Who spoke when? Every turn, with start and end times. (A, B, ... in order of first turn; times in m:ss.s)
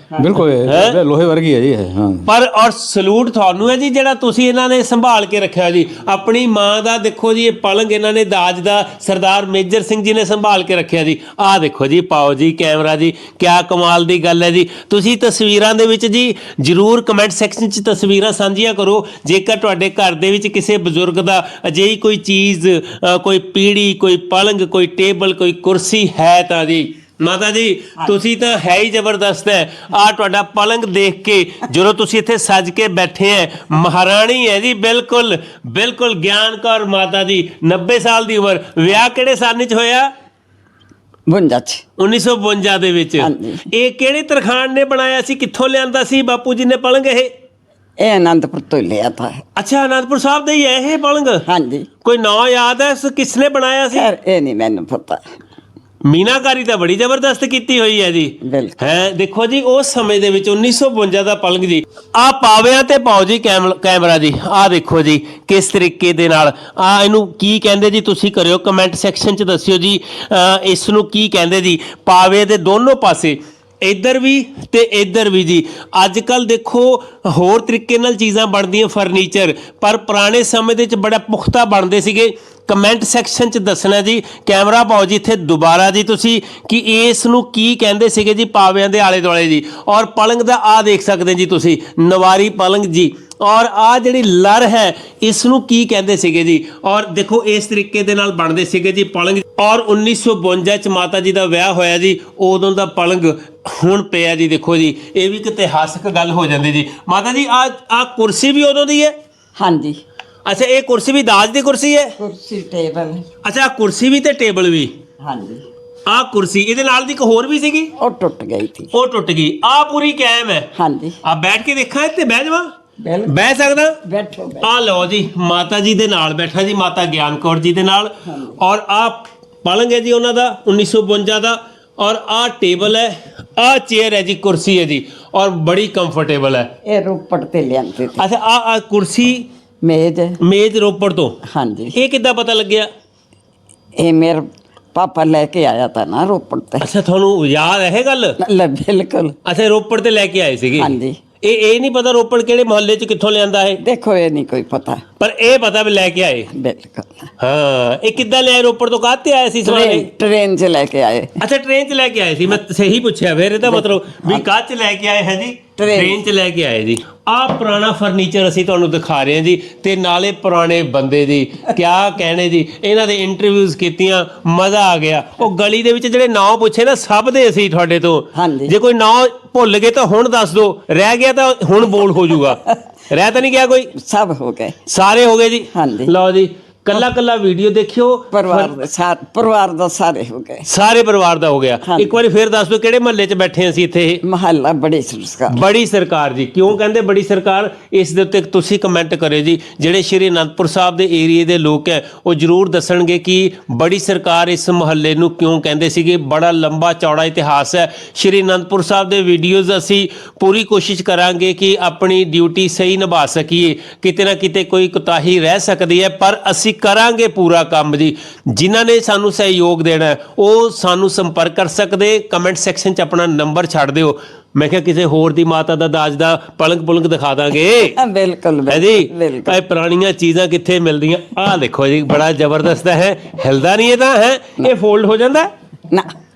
0:00.2-0:02.3 A
0:00.6-0:01.0 B
0:02.3-0:40.1 B
0:41.3-0:41.8 C
0:42.0-0:47.3 B
0:43.2-0:43.7 C
0:48.0-0:49.4 C
0:49.6-0:51.4 B
0:51.5-0:51.9 C
0:52.0-0:54.1 B
0:53.9-0:55.2 C
0:56.1-1:49.1 B
0:58.4-0:58.8 C
1:49.6-1:50.0 C
1:50.4-1:52.1 B
1:52.2-1:53.2 C
1:53.4-1:54.9 B
1:55.2-1:55.6 C
1:56.1-1:57.9 B
1:58.0-1:58.9 C
1:58.9-2:00.7 B
2:00.8-2:01.2 C
2:01.2-2:02.7 B
2:03.0-2:03.4 C
2:03.2-2:04.0 B
2:04.0-2:04.7 C
2:04.6-2:16.7 B
2:08.3-2:08.6 C
2:16.8-2:18.2 C
2:18.2-2:19.5 B
2:19.8-2:20.4 C
2:20.4-2:21.4 B
2:21.5-2:22.0 C
2:21.9-2:22.9 B
2:24.0-2:26.9 C
2:26.8-2:28.4 B
2:28.4-2:29.4 C
2:29.4-2:33.8 B
2:30.8-2:31.2 C
2:33.8-2:35.0 C
2:35.2-2:36.5 B
2:36.5-2:37.3 C
2:37.4-2:40.1 B
2:39.6-2:41.3 C
2:41.4-3:03.9 B
2:43.6-2:44.5 C
2:45.8-2:46.2 C
2:58.4-2:58.8 C
3:02.1-3:02.8 C
3:04.0-3:04.8 C
3:04.9-3:08.8 B
3:05.7-3:06.2 C
3:08.3-3:10.7 C
3:10.7-3:14.2 B
3:11.8-3:12.1 C
3:14.2-3:15.6 C
3:15.5-3:48.0 B
3:47.8-3:49.6 C
3:48.7-3:55.5 B